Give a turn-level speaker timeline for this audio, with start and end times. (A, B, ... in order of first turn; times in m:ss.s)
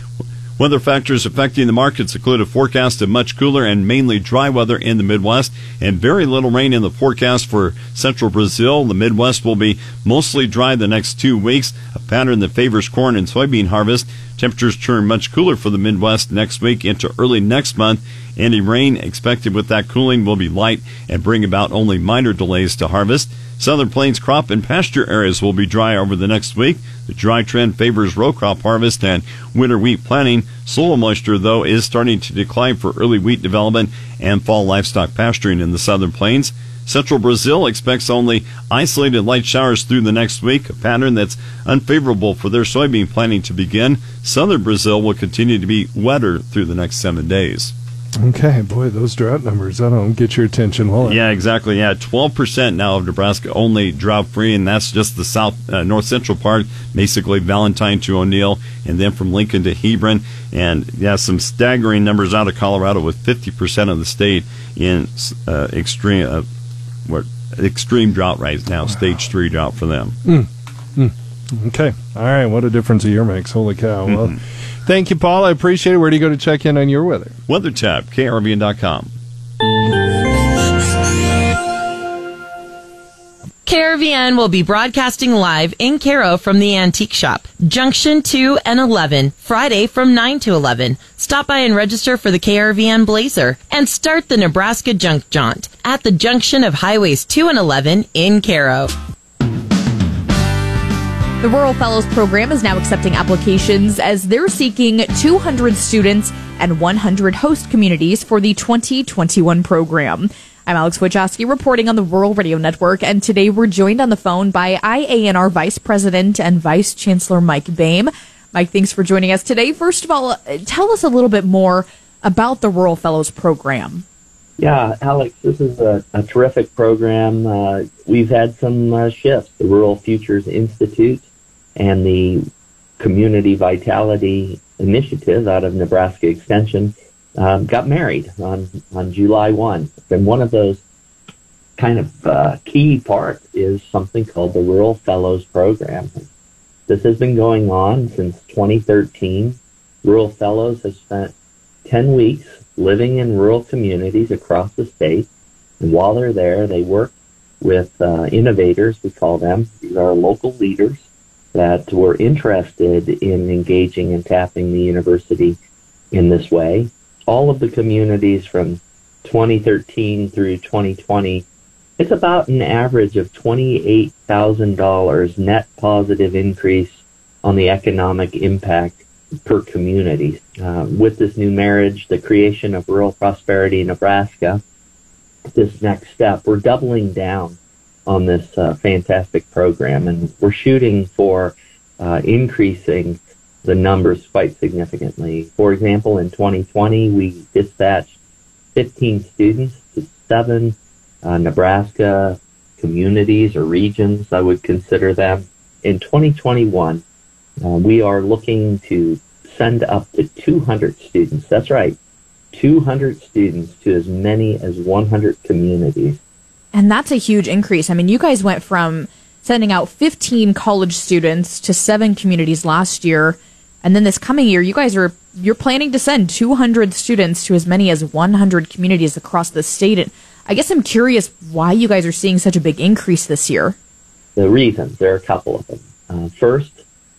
0:00.6-0:47.7 A
0:48.2-0:51.2 B
0:51.0-1:06.4 A
1:07.0-1:10.2 A
1:10.2-1:17.3 B
1:17.5-1:19.1 A
1:23.6-1:38.9 C
1:41.4-2:04.0 D
2:04.6-2:11.2 E
2:11.8-2:12.4 E
2:13.0-2:20.8 E
2:21.8-2:26.3 E
2:26.9-2:31.3 E
2:31.8-2:35.3 E
2:35.8-2:41.0 E
2:41.5-2:45.6 E
2:46.1-2:51.4 E
2:52.0-3:04.6 E
3:05.5-3:07.6 E
3:08.1-3:18.1 E
3:18.7-3:27.0 E
3:27.6-3:32.0 E
3:32.5-3:36.2 E
3:36.7-3:53.7 D
3:54.4-3:56.8 E